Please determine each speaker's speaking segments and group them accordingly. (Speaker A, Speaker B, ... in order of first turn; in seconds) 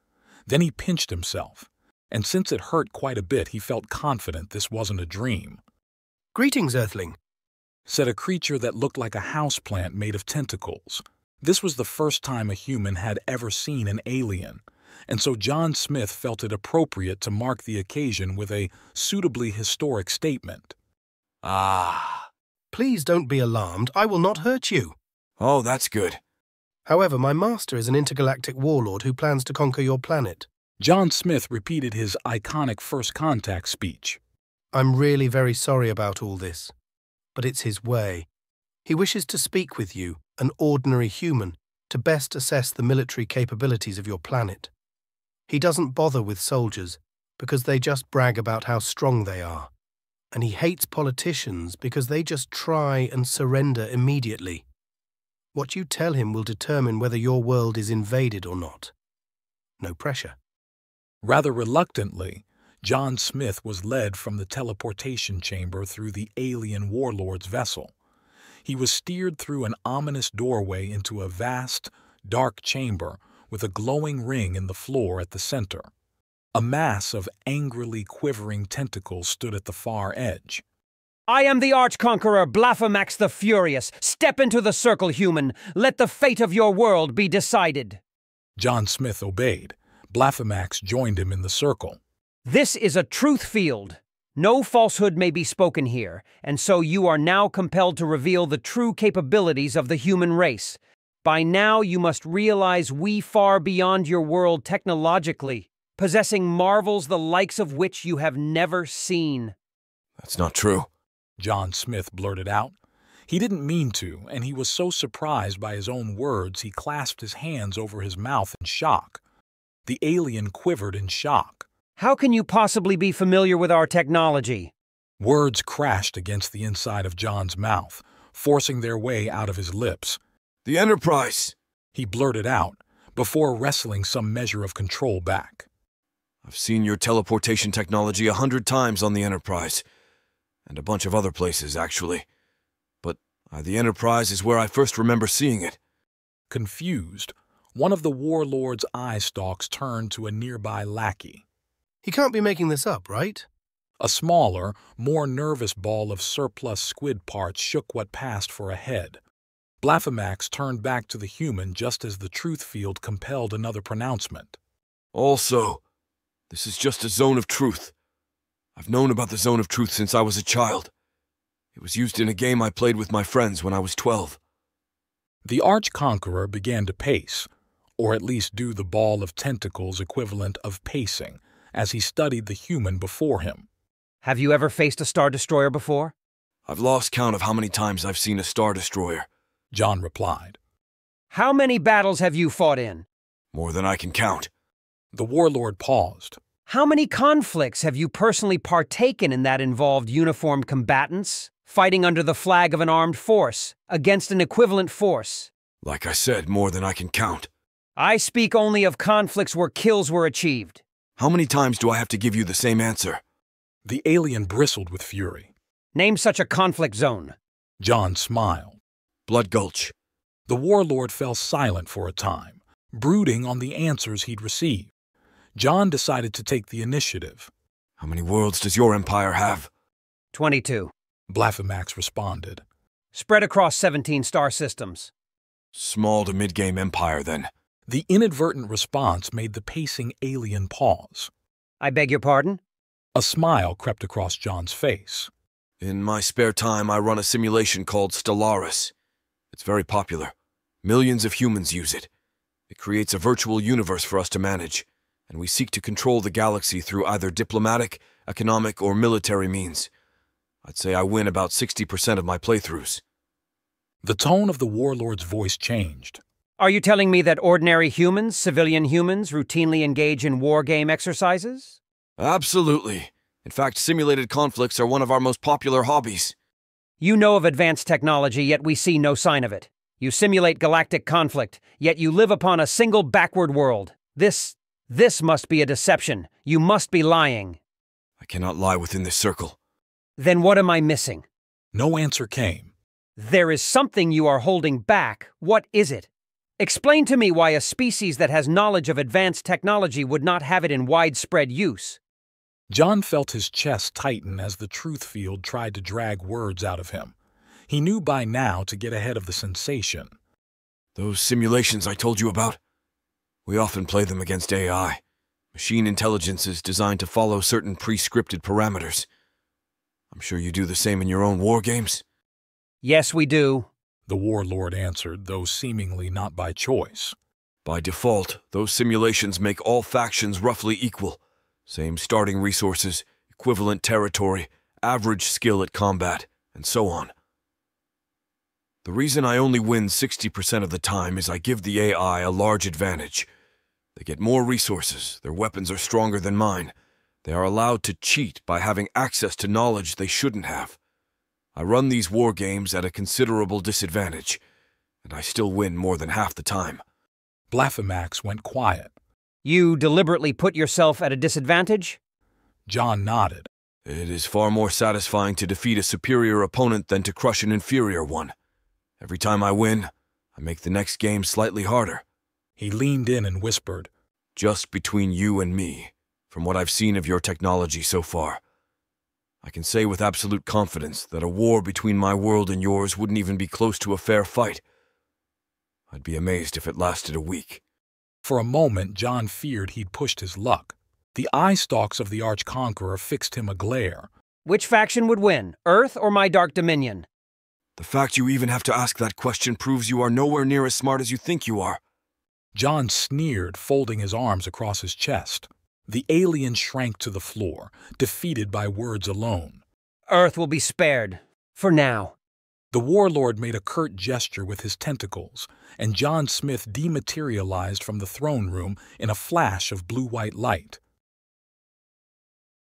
Speaker A: 0.5-5.6, 7.9-20.7, 30.8-34.2, 61.2-67.9, 68.6-75.9, 76.5-80.6, 88.5-92.0, 111.4-112.7, 113.3-119.2, 119.8-121.6, 125.2-130.2, 131.9-135.7, 146.5-151.4, 154.0-159.2, 159.8-164.6, 175.4-183.7, 189.7-190.6, 195.1-196.4, 213.8-215.5, 217.8-218.8, 220.5-224.9, 225.5-227.5, 231.3-232.6, 237.9-241.3, 243.1-245.3, 264.0-266.2, 291.7-292.7, 302.7-307.1, 307.7-310.1, 324.1-327.1, 357.5-358.9, 362.7-363.5, 372.6-373.9, 388.2-394.1, 402.5-409.6, 412.7-420.8
Speaker B: 6.3-7.2, 22.7-24.9, 26.9-30.5, 34.7-36.7, 37.3-38.3, 38.9-44.7, 45.5-49.7, 50.3-54.6, 55.5-58.9, 59.8-60.4, 152.0-153.5
Speaker C: 21.4-22.3, 25.4-26.2, 110.2-110.9, 130.6-131.5, 136.4-139.8, 140.7-142.2, 143.0-145.8, 165.1-165.8, 166.5-167.9, 168.8-170.9, 171.7-174.4, 186.7-189.3, 193.5-194.5, 205.8-207.5, 211.2-213.2, 219.3-219.9, 228.0-229.7, 235.7-237.5, 245.8-248.9, 249.5-250.3, 250.8-252.1, 252.7-259.9, 260.6-263.0, 272.2-276.3, 288.2-289.6, 310.9-312.6, 313.4-315.0, 315.5-319.1, 320.1-322.0, 327.6-337.1, 338.8-343.3, 343.9-350.8, 351.6-354.4, 355.0-356.8, 363.8-368.3, 369.0-372.0, 374.4-378.4, 379.4-384.6, 385.9-387.6, 397.8-401.8
Speaker D: 81.3-88.0, 92.4-109.5, 122.0-124.7, 184.2-186.1, 191.3-193.1, 196.7-205.5, 208.0-210.8, 215.9-217.3, 230.3-230.9, 233.1-235.1, 241.8-242.6, 266.6-271.8, 277.0-287.6, 290.2-291.2, 293.2-302.0, 322.8-323.7, 359.4-362.0, 394.4-397.1, 410.1-412.1